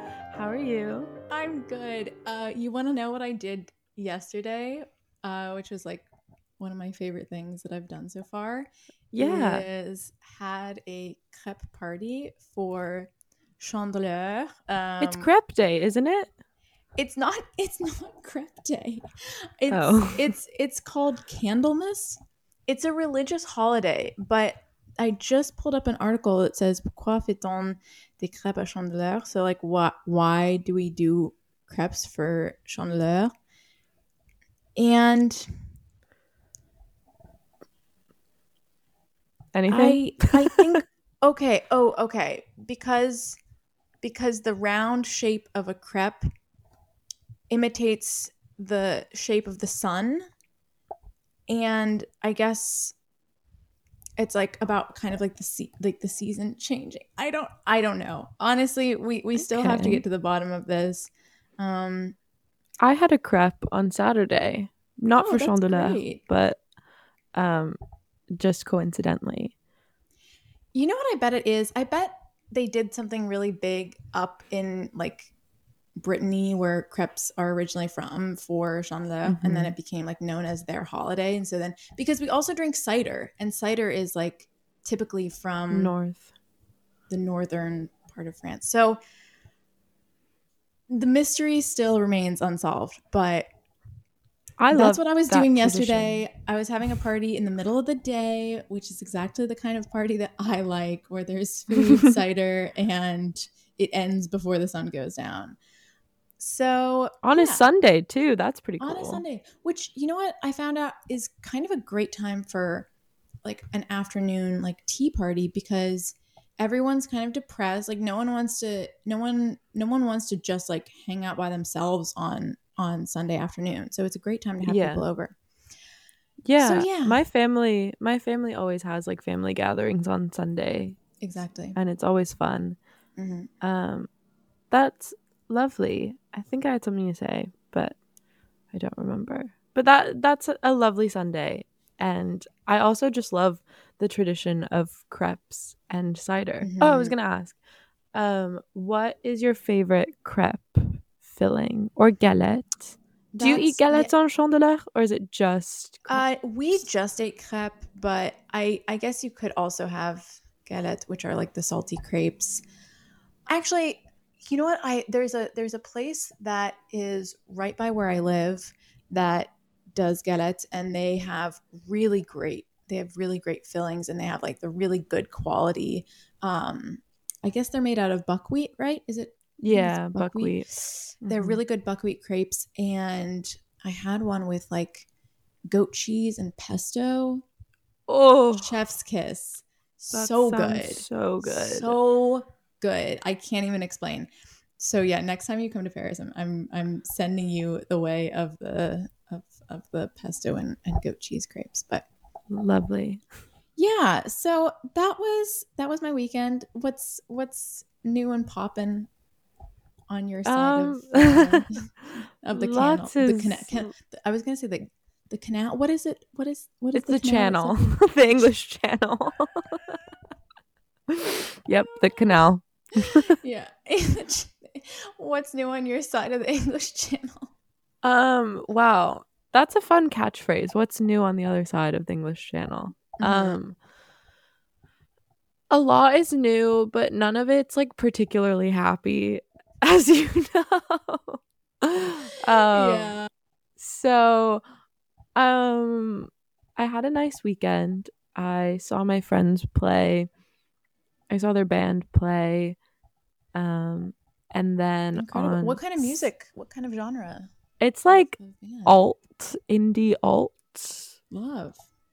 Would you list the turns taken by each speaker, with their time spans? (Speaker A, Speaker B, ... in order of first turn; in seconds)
Speaker A: 0.3-1.1, 9.1-9.7, 15.0-16.3, 19.7-20.3, 39.5-40.7, 59.4-60.0, 62.8-66.6, 67.3-67.8, 68.3-69.5, 79.2-79.7, 85.7-86.3, 94.6-96.2, 101.8-102.1, 107.2-109.2, 124.6-125.0, 126.5-131.0, 131.8-132.8, 133.6-134.1, 134.7-138.0, 138.7-147.6, 148.1-156.2, 179.6-180.7, 181.2-181.6, 188.1-188.8, 190.1-192.0, 202.5-203.2, 210.5-213.9, 216.9-220.0, 221.1-223.4, 228.0-233.8, 235.7-243.2, 243.8-244.6, 245.4-250.3, 251.3-252.8, 253.6-256.3, 257.8-261.1
Speaker B: 1.3-6.1, 6.6-15.3, 17.0-33.3, 34.8-35.6, 39.7-43.4, 44.0-46.2, 47.5-50.3, 51.5-53.0, 54.2-62.2, 65.2-66.2, 70.7-75.3, 76.0-85.9, 87.1-89.0, 90.9-93.5, 94.7-105.6, 106.4-107.7, 108.8-112.9, 113.4-125.3, 126.6-127.2, 131.2-131.8, 133.2-133.5, 146.6-147.2, 153.3-154.1, 156.1-162.6, 163.5-185.1, 185.7-187.4, 188.5-202.1, 203.8-209.1, 210.1-211.8, 212.4-218.5, 223.0-227.5, 233.2-233.6, 242.7-243.3, 255.2-257.5, 258.1-258.9, 261.3-261.8